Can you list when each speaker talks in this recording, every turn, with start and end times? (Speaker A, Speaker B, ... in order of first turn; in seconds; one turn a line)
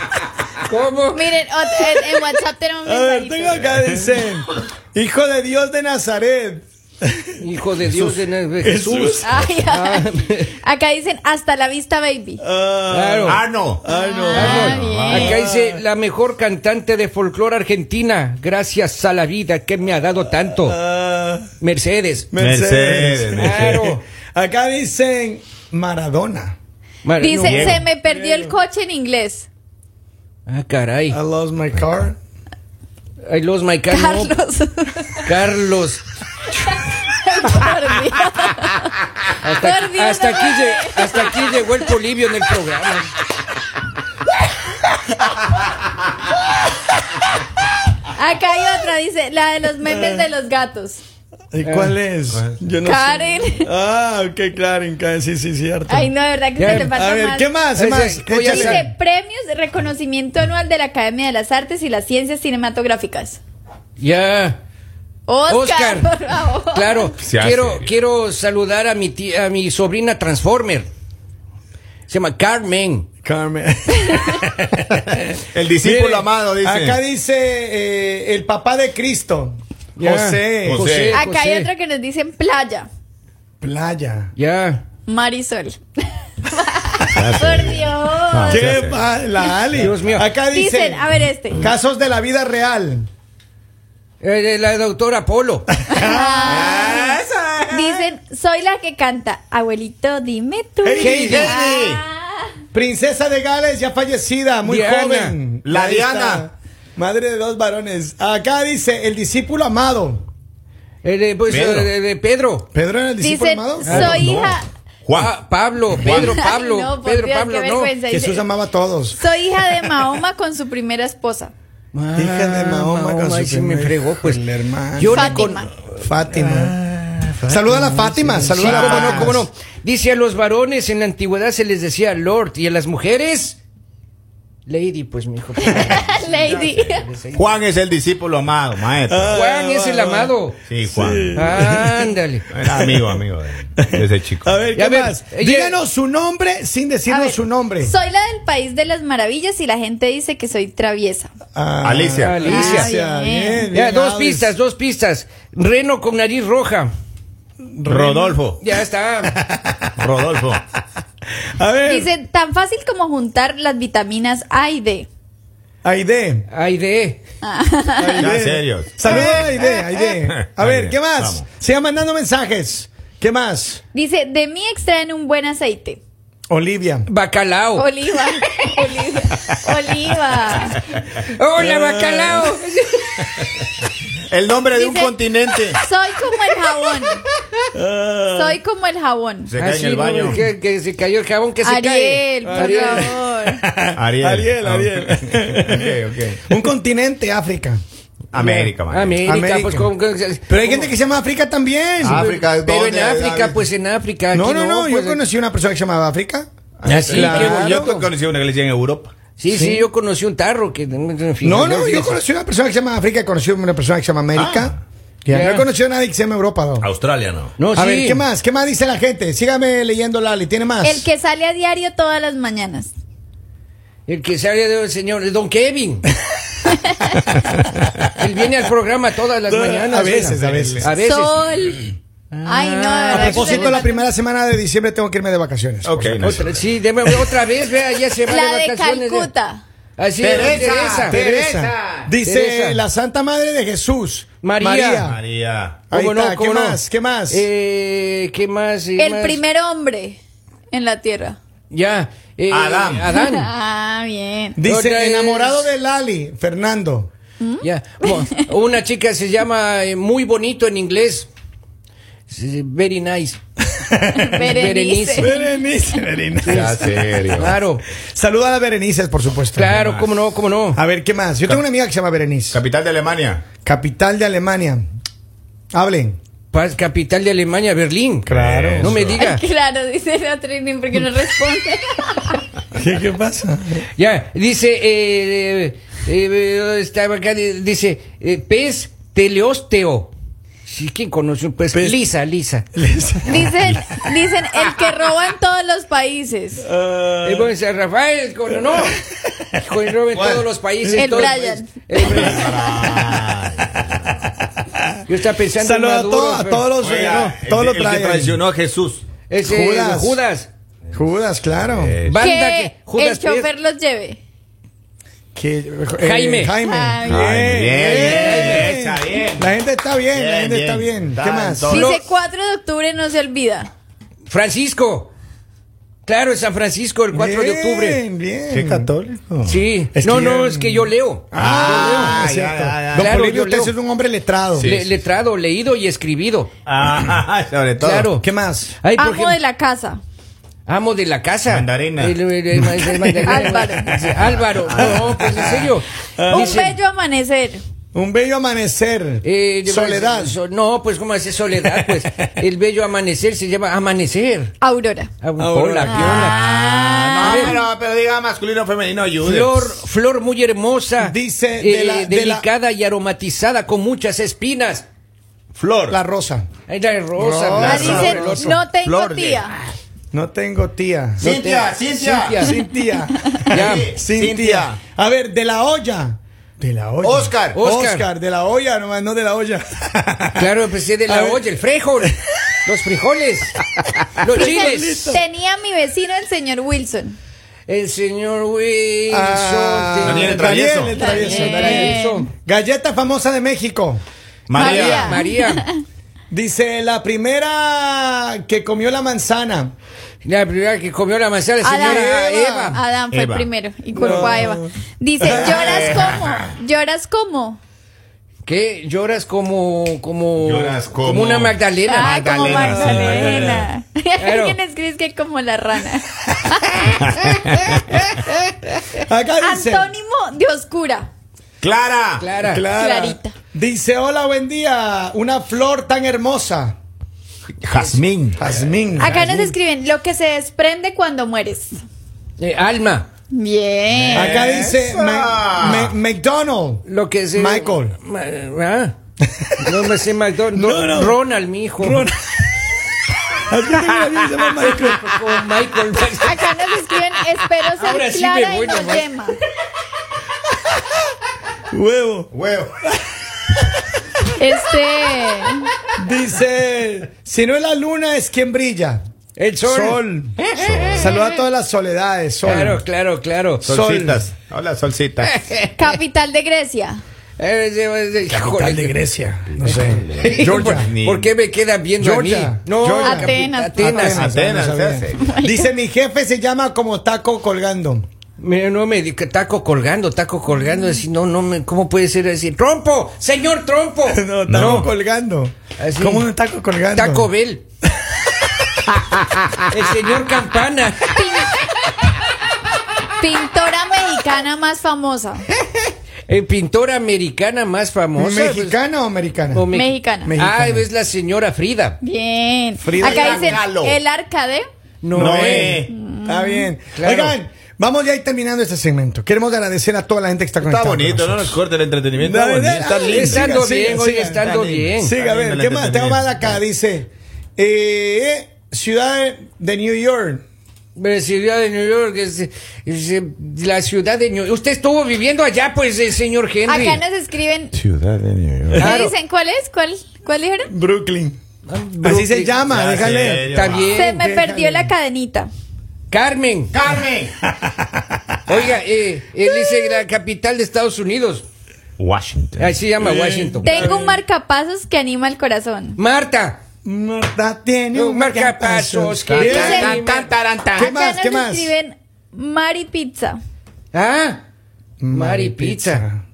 Speaker A: 0.6-1.3
Speaker B: 1.1-3.6
Speaker C: 2.9-7.3
Speaker A: 7.4-10.6
Speaker D: 7.9-8.2
Speaker C: 8.6-9.5
Speaker B: 9.2-12.4
Speaker C: 12.4-15.8
Speaker A: 12.9-13.4
Speaker D: 13.2-13.9
Speaker B: 13.9-15.3
Speaker A: 14.3-20.8
Speaker D: 14.5-15.4
Speaker C: 20.5-21.5
Speaker A: 21.6-22.3
Speaker C: 22.3-26.6
Speaker D: 22.4-23.8
Speaker A: 23.4-24.0
Speaker A: 27.1-27.8
Speaker B: 27.1-29.5
Speaker D: 27.4-27.9
Speaker C: 28.1-28.5
Speaker A: 30.5-31.2
Speaker C: 31.1-32.2
Speaker A: 33.2-34.3
Speaker B: 33.9-35.4
Speaker A: 35.2-36.0
Speaker B: 36.6-42.0
Speaker A: 39.3-43.2
Speaker B: 48.1-51.0
Speaker C: 49.9-50.2
Speaker C: 51.5-58.9
Speaker A: 51.6-52.0
Speaker D: 52.3-52.6
Speaker B: 52.8-53.7
Speaker B: 55.9-57.6
Speaker A: 56.6-57.0
Speaker A: 57.7-58.9
Speaker B: 58.5-63.4
Speaker A: 64.0-64.6
Speaker B: 65.3-67.2
Speaker A: 65.5-66.1
Speaker A: 66.7-70.9
Speaker D: 67.2-67.9
Speaker A: 72.1-73.1
Speaker C: 73.2-80.8
Speaker B: 73.9-74.4
Speaker D: 75.5-77.0
Speaker A: 80.0-81.7
Speaker D: 80.7-81.2
Speaker B: 81.0-82.9
Speaker C: 83.6-84.3
Speaker A: 84.3-84.9
Speaker B: 85.1-85.8
Speaker B: 86.5-88.8
Speaker D: 87.0-89.2
Speaker C: 88.5-93.1
Speaker B: 89.4-89.7
Speaker D: 89.8-90.0
Speaker A: 89.8-90.3
Speaker B: 90.4-91.6
Speaker A: 94.2-95.7
Speaker B: 95.9-102.4
Speaker C: 95.9-96.9
Speaker D: 96.4-98.1
Speaker C: 100.8-101.5
Speaker A: 101.0-101.4
Speaker D: 101.1-102.0
Speaker C: 102.7-110.2
Speaker A: 104.6-105.4
Speaker D: 105.7-106.5
Speaker A: 111.0-112.7
Speaker D: 111.5-111.9
Speaker C: 112.7-114.2
Speaker B: 113.2-114.7
Speaker A: 113.8-114.2
Speaker D: 113.9-115.3
Speaker A: 115.1-117.9
Speaker D: 115.9-116.4
Speaker B: 116.0-118.5
Speaker C: 118.1-119.2
Speaker B: 119.2-121.5
Speaker A: 121.9-124.4
Speaker C: 122.2-126.8
Speaker A: 125.0-133.6
Speaker B: 125.1-125.7
Speaker C: 127.5-129.5
Speaker D: 128.6-129.4
Speaker A: 134.7-137.5
Speaker B: 135.6-137.1
Speaker D: 137.3-139.5
Speaker C: 139.1-143.2
Speaker A: 139.3-140.6
Speaker D: 140.7-141.4
Speaker A: 141.3-142.5
Speaker D: 142.5-144.6
Speaker C: 143.8-147.9
Speaker A: 144.7-145.8
Speaker B: 147.1-151.3
Speaker C: 151.6-154.5
Speaker D: 151.8-152.4
Speaker A: 152.2-152.9
Speaker B: 152.4-153.7
Speaker A: 153.7-156.9
Speaker C: 157.6-158.4
Speaker D: 157.9-158.6
Speaker A: 158.6-159.4
Speaker C: 159.2-159.9
Speaker D: 160.0-160.6
Speaker C: 161.6-162.1
Speaker B: 161.8-165.1
Speaker C: 165.8-166.5
Speaker A: 166.5-167.2
Speaker B: 167.4-168.3
Speaker C: 168.0-173.8
Speaker D: 168.2-171.5
Speaker B: 169.0-170.1
Speaker B: 173.9-176.0
Speaker C: 176.5-177.1
Speaker A: 177.1-177.9
Speaker B: 177.8-180.8
Speaker A: 181.1-183.3
Speaker C: 181.6-182.6
Speaker D: 184.2-185.8
Speaker B: 184.7-187.2
Speaker C: 187.7-188.6
Speaker B: 188.3-189.6
Speaker D: 189.5-190.5
Speaker A: 189.6-193.2
Speaker B: 191.6-193.6
Speaker C: 192.6-197.8
Speaker D: 194.0-196.4
Speaker D: 198.3-199.2
Speaker A: 198.4-200.9
Speaker C: 199.2-199.9
Speaker C: 200.5-202.3
Speaker D: 202.0-203.6
Speaker A: 202.0-205.2
Speaker C: 204.3-207.9
Speaker D: 206.8-209.1
Speaker A: 206.8-208.1
Speaker A: 209.4-212.2
Speaker C: 209.5-209.8
Speaker C: 211.4-216.9
Speaker D: 214.3-214.8
Speaker A: 215.3-215.7
Speaker D: 216.8-217.5
Speaker A: 217.6-218.2
Speaker C: 217.8-221.1
Speaker B: 220.8-222.9
Speaker A: 224.1-226.1
Speaker B: 226.7-227.3
Speaker A: 228.1-231.4
Speaker C: 229.5-230.9
Speaker D: 230.4-231.0
Speaker B: 230.9-234.0
Speaker A: 232.4-233.8
Speaker C: 233.1-236.4
Speaker D: 235.8-236.8
Speaker A: 236.2-239.3
Speaker B: 238.2-239.6
Speaker A: 240.0-241.2
Speaker D: 240.2-242.1
Speaker C: 240.7-245.2
Speaker A: 242.2-242.8
Speaker A: 244.4-245.1
Speaker D: 245.0-245.8
Speaker C: 245.9-247.5
Speaker A: 245.9-249.4
Speaker B: 249.0-250.2
Speaker B: 250.7-251.4
Speaker A: 251.7-253.5
Speaker D: 252.5-253.1
Speaker B: 253.1-254.6
Speaker C: 254.6-257.1
Speaker A: 254.6-255.7
Speaker B: 257.4-258.5
Speaker A: 257.6-261.3
Speaker A: 262.3-263.4
Speaker C: 263.7-266.8
Speaker B: 264.1-266.0
Speaker A: 264.4-265.3
Speaker A: 266.4-267.8
Speaker D: 266.5-267.6
Speaker C: 268.0-269.8
Speaker A: 269.5-270.8
Speaker D: 269.7-270.1
Speaker C: 270.8-272.6
Speaker D: 272.5-273.5
Speaker C: 273.6-274.9
Speaker C: 275.7-276.2
Speaker A: 276.5-278.3
Speaker C: 278.3-279.0
Speaker D: 278.3-279.2
Speaker A: 278.8-279.4
Speaker B: 279.1-282.4
Speaker C: 282.7-283.9
Speaker A: 283.9-290.1
Speaker A: 290.7-292.7
Speaker C: 291.7-292.0
Speaker C: 292.7-294.0
Speaker B: 293.2-296.7
Speaker C: 296.6-297.5
Speaker A: 297.1-299.0
Speaker C: 298.7-299.2
Speaker A: 299.5-302.6
Speaker D: 300.1-300.5
Speaker C: 300.8-301.2
Speaker B: 300.9-302.8
Speaker C: 302.0-302.5
Speaker D: 302.0-304.3
Speaker A: 305.1-306.7
Speaker C: 305.6-308.4
Speaker D: 306.8-309.0
Speaker A: 309.3-310.5
Speaker C: 309.4-310.2
Speaker C: 310.9-312.0
Speaker D: 311.6-312.3
Speaker A: 312.1-313.5
Speaker B: 312.2-314.2
Speaker C: 315.4-321.8
Speaker A: 316.0-316.5
Speaker B: 316.6-317.3
Speaker D: 317.0-319.6
Speaker A: 317.8-318.7
Speaker D: 320.1-321.9
Speaker B: 321.7-323.7
Speaker A: 321.8-322.0
Speaker A: 324.3-325.1
Speaker A: 326.1-328.0
Speaker C: 327.1-328.9
Speaker D: 328.5-329.6
Speaker A: 329.4-332.2
Speaker C: 329.9-334.7
Speaker D: 331.3-333.2
Speaker A: 332.9-333.8
Speaker D: 334.6-334.9
Speaker A: 334.6-336.5
Speaker D: 336.7-338.1
Speaker A: 337.8-338.3
Speaker C: 338.2-338.8
Speaker A: 338.8-339.4
Speaker B: 338.9-340.0
Speaker A: 340.7-346.8
Speaker D: 341.5-342.2
Speaker C: 342.6-343.6
Speaker B: 343.2-344.1
Speaker D: 344.2-345.3
Speaker C: 344.8-346.6
Speaker B: 346.2-347.6
Speaker C: 347.9-350.4
Speaker A: 349.2-354.5
Speaker B: 354.6-355.1
Speaker A: 355.2-356.4
Speaker C: 355.4-356.4
Speaker B: 355.9-357.6
Speaker D: 355.9-359.8
Speaker A: 357.2-357.6
Speaker A: 359.2-364.9
Speaker C: 361.0-362.5
Speaker D: 365.5-366.0
Speaker C: 365.9-366.5
Speaker A: 366.7-368.6
Speaker C: 367.1-368.6
Speaker D: 367.6-369.6
Speaker B: 367.6-369.6
Speaker C: 370.1-371.3
Speaker D: 371.2-372.5
Speaker A: 371.2-372.6
Speaker C: 372.4-380.5
Speaker B: 373.1-373.5
Speaker D: 373.4-374.8
Speaker A: 373.5-373.9
Speaker D: 377.0-377.6
Speaker A: 377.5-378.1
Speaker A: 380.4-383.6
Speaker C: 381.1-381.4
Speaker A: 384.2-385.2
Speaker C: 384.2-385.2
Speaker B: 384.3-387.2
Speaker A: 387.7-390.5
Speaker C: 389.1-394.0
Speaker D: 390.0-391.1
Speaker B: 390.9-392.3
Speaker A: 391.0-392.3
Speaker D: 394.5-395.2
Speaker B: 394.5-395.8
Speaker A: 394.6-395.7
Speaker C: 396.3-399.7
Speaker A: 400.2-402.8
Speaker B: 401.6-407.6
Speaker C: 401.8-402.8
Speaker D: 403.1-403.5
Speaker C: 403.9-404.7
Speaker D: 405.2-406.5
Speaker C: 405.2-406.2
Speaker A: 408.4-412.4
Speaker D: 410.4-413.7
Speaker B: 411.9-417.3
Speaker C: 412.4-413.7
Speaker A: 414.2-414.6
Speaker D: 417.0-417.8
Speaker A: 417.1-419.0
Speaker C: 418.9-419.9
Speaker B: 419.4-421.1
Speaker D: 421.6-422.3
Speaker A: 422.2-422.7
Speaker C: 422.4-426.8
Speaker B: 422.7-423.3
Speaker D: 427.6-428.4
Speaker A: 427.8-428.0
Speaker C: 428.4-429.4
Speaker B: 429.0-431.8
Speaker A: 429.1-429.5
Speaker A: 432.4-433.1
Speaker B: 433.3-434.2
Speaker D: 433.9-435.9
Speaker C: 434.1-437.9
Speaker A: 436.9-439.0
Speaker C: 439.4-439.8
Speaker A: 439.6-442.1
Speaker C: 440.5-441.2
Speaker C: 441.8-442.7
Speaker C: 443.5-445.2
Speaker A: 445.0-446.5
Speaker B: 446.2-449.4
Speaker A: 447.6-449.1
Speaker C: 451.7-452.3
Speaker D: 452.3-452.8
Speaker C: 453.5-453.8
Speaker B: 454.4-455.7
Speaker C: 456.0-459.0
Speaker A: 459.4-460.0
Speaker C: 459.6-460.4
Speaker D: 460.4-461.1
Speaker A: 460.6-461.4
Speaker C: 460.9-462.8
Speaker A: 462.4-463.7
Speaker C: 463.6-464.2
Speaker D: 463.6-465.4
Speaker A: 465.2-466.0
Speaker B: 465.8-467.0
Speaker A: 467.4-469.0
Speaker C: 468.3-470.9
Speaker D: 469.5-471.3
Speaker A: 470.2-474.4
Speaker C: 472.0-478.1
Speaker B: 473.0-474.2
Speaker D: 474.2-475.4
Speaker B: 475.2-475.7
Speaker A: 478.4-484.9
Speaker C: 484.1-487.3
Speaker D: 484.5-484.9
Speaker A: 485.8-486.3
Speaker A: 486.9-487.6
Speaker A: 489.7-491.2
Speaker B: 491.1-492.1
Speaker B: 493.2-495.5
Speaker A: 496.3-498.8
Speaker C: 498.2-499.7
Speaker A: 499.5-502.0
Speaker B: 499.7-500.4
Speaker C: 500.2-500.9
Speaker B: 502.0-504.6
Speaker C: 502.8-503.6
Speaker D: 502.9-504.0
Speaker A: 505.0-505.8
Speaker D: 505.1-505.9
Speaker C: 505.2-511.6
Speaker B: 505.8-506.7
Speaker A: 506.9-507.4
Speaker D: 510.6-513.6
Speaker C: 512.2-520.4
Speaker A: 513.1-515.1
Speaker D: 514.4-516.6
Speaker A: 521.0-527.0
Speaker B: 526.7-527.8
Speaker D: 527.8-529.0
Speaker C: 528.7-529.0
Speaker A: 528.8-529.1
Speaker B: 528.8-530.7
Speaker C: 530.7-531.4
Speaker A: 531.7-532.7
Speaker C: 532.0-533.5
Speaker D: 532.7-534.1
Speaker A: 533.4-534.3
Speaker B: 533.9-535.5
Speaker C: 534.1-534.9
Speaker A: 536.1-536.8
Speaker D: 536.7-537.4
Speaker C: 537.5-538.2
Speaker A: 538.5-541.5
Speaker B: 539.4-540.0
Speaker D: 542.0-542.8
Speaker A: 542.6-544.0
Speaker C: 543.0-544.2
Speaker B: 543.6-546.0
Speaker A: 546.0-546.6
Speaker C: 546.9-550.0
Speaker A: 547.9-550.3
Speaker D: 549.2-551.0
Speaker B: 549.7-550.0
Speaker C: 550.7-551.7
Speaker B: 550.8-553.4
Speaker A: 553.9-554.4
Speaker C: 555.0-556.2
Speaker A: 555.1-556.0